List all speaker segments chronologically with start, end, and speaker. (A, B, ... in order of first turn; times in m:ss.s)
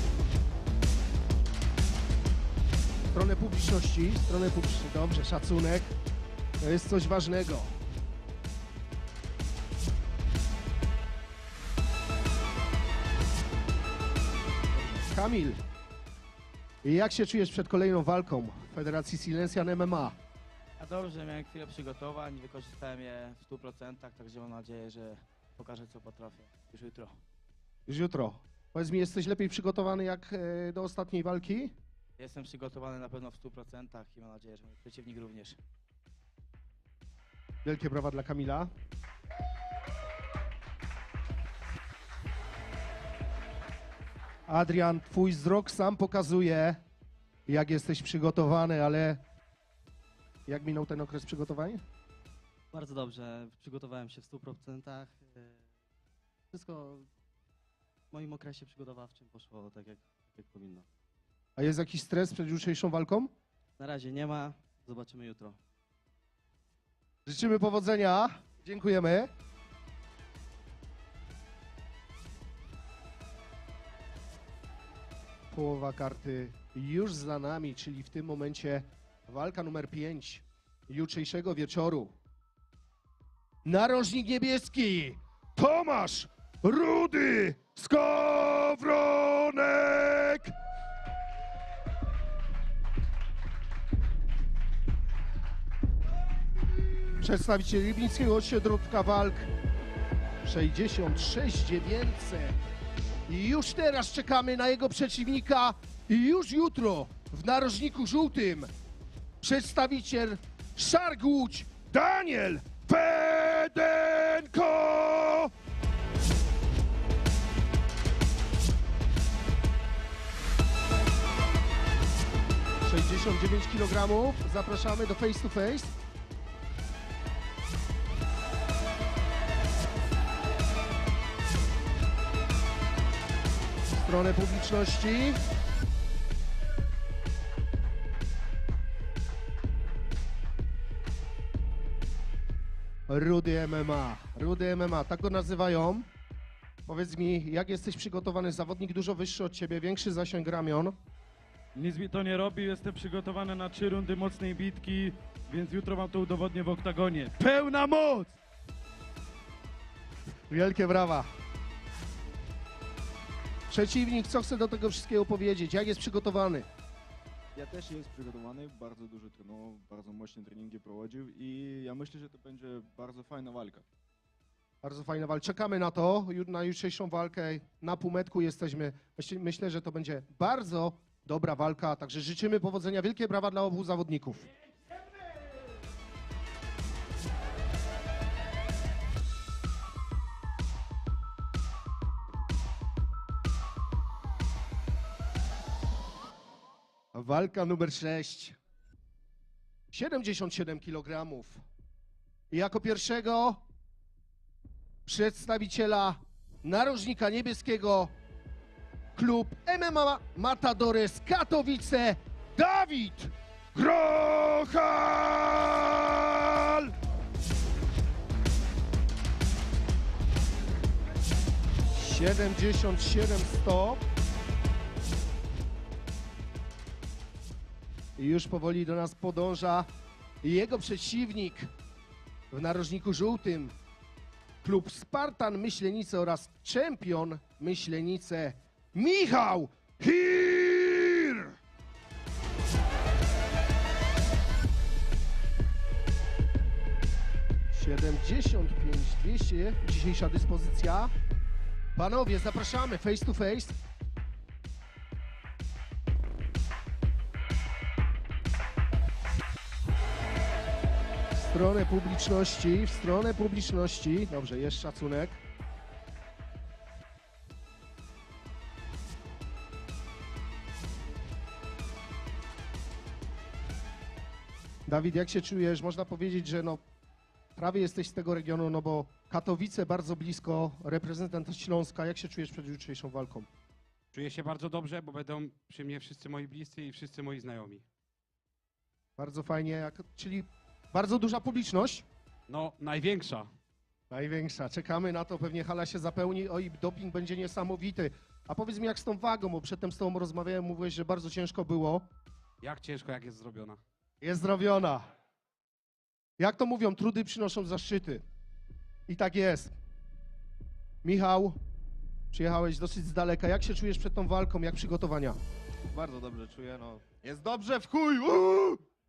0:03.1-0:05.9 A
0:06.6-0:07.8 A
0:14.7-0:15.6 A
0:16.8-0:20.2 A
0:20.8-0:27.2 B
0:27.9-0:31.7 A
0:32.2-0:35.6 B
0:37.6-0:38.7 A
0:44.5-0:46.8 A
0:47.5-0:49.2 A
0:50.5-0:51.8 A
0:52.7-0:55.6 C
0:56.5-0:57.0 C
0:58.1-1:00.8 C
1:01.6-1:03.3 A
1:03.8-1:05.6 C
1:07.2-1:09.3 A
1:15.5-1:22.1 A
1:23.6-1:30.5 A
1:37.2-1:39.5 A
1:40.4-1:42.6 A
1:43.3-1:48.7 A
1:49.4-1:55.5 A
2:02.8-2:05.9 A
2:13.9-2:15.4 A
2:23.1-2:26.1 A
2:26.9-2:31.0 A
2:31.8-2:38.3 D
2:37.8-2:38.0 A
2:40.5-2:41.3 A
2:43.7-2:46.7 A
2:47.5-2:53.8 E
2:54.8-3:04.5 A
3:17.1-3:18.6 A
3:19.9-3:21.6 A
3:22.5-3:23.6 A
3:25.0-3:28.1 A
3:29.2-3:36.9 A
3:41.9-3:44.0 A
3:48.2-3:49.9 A
3:50.4-3:51.7 A
3:52.5-3:53.7 A
3:54.6-4:01.5 A
4:07.7-4:11.1 A
4:12.0-4:13.8 A
4:21.3-4:25.4 A
4:34.9-4:36.8 A
4:37.6-4:43.5 A
4:44.1-4:47.8 F
4:49.2-4:52.0 A
4:52.5-4:53.5 F
4:54.1-5:02.1 A
5:02.6-5:03.8 F
5:04.2-5:05.1 A
5:06.4-5:08.2 A
5:09.1-5:09.7 A
5:11.0-5:11.6 A
5:12.3-5:15.4 A
5:16.0-5:16.4 E